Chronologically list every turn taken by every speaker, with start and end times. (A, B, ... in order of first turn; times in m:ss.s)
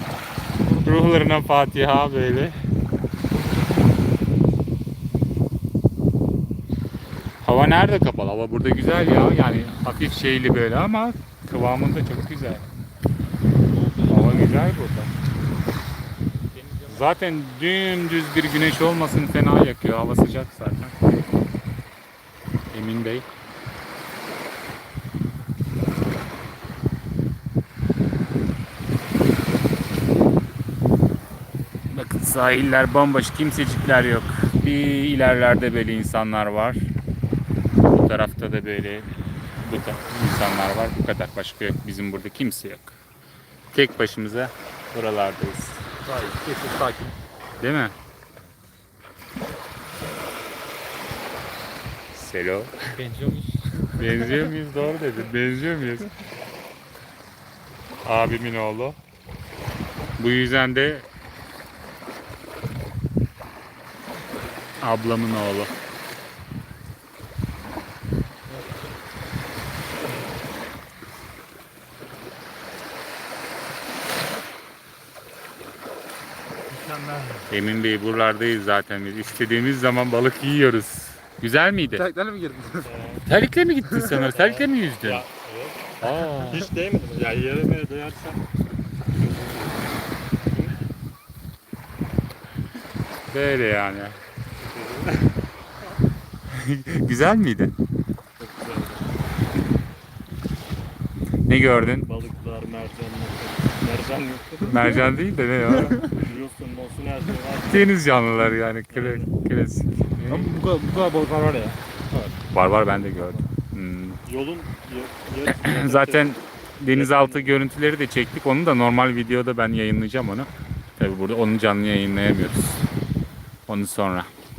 0:00.7-0:01.0 A
0:00.8-0:02.6 B
0:07.4-0:12.6 B
0:13.7-0:14.6 A
0:14.1-0:15.1 B
0:16.5-0:17.1 A
0:16.9-0:21.0 B
0:22.7-0:23.2 B
0:31.9-0:36.9 B
0:37.9-0:39.1 B
0:39.6-0:43.0 B
0:43.7-0:45.9 B
0:46.0-0:47.2 A
0:47.6-0:47.9 B
0:52.1-0:52.7 B
0:53.0-0:54.5 A
0:54.0-0:56.1 B
0:58.0-0:59.0 B
1:00.2-1:01.0 B
1:04.8-1:05.7 B
1:16.7-1:17.4 C
1:17.5-1:22.1 B
1:21.9-1:23.0 A
1:22.8-1:23.2 C
1:23.2-1:25.2 B
1:24.1-1:28.4 C
1:26.0-1:26.7 B
1:29.1-1:30.0 C
1:30.5-1:30.7 C
1:33.3-1:34.2 B
1:34.6-1:35.3 C
1:36.5-1:37.7 B
1:38.4-1:39.1 C
1:41.5-1:42.1 B
1:41.6-1:44.8 C
1:44.6-1:46.2 B
1:46.0-1:47.9 C
1:47.7-1:50.5 B
1:48.9-1:49.3 C
1:50.3-1:51.8 A
1:52.5-1:54.2 B
1:52.8-1:53.4 A
1:54.2-1:57.6 C
1:55.5-2:02.8 B
2:03.7-2:04.3 B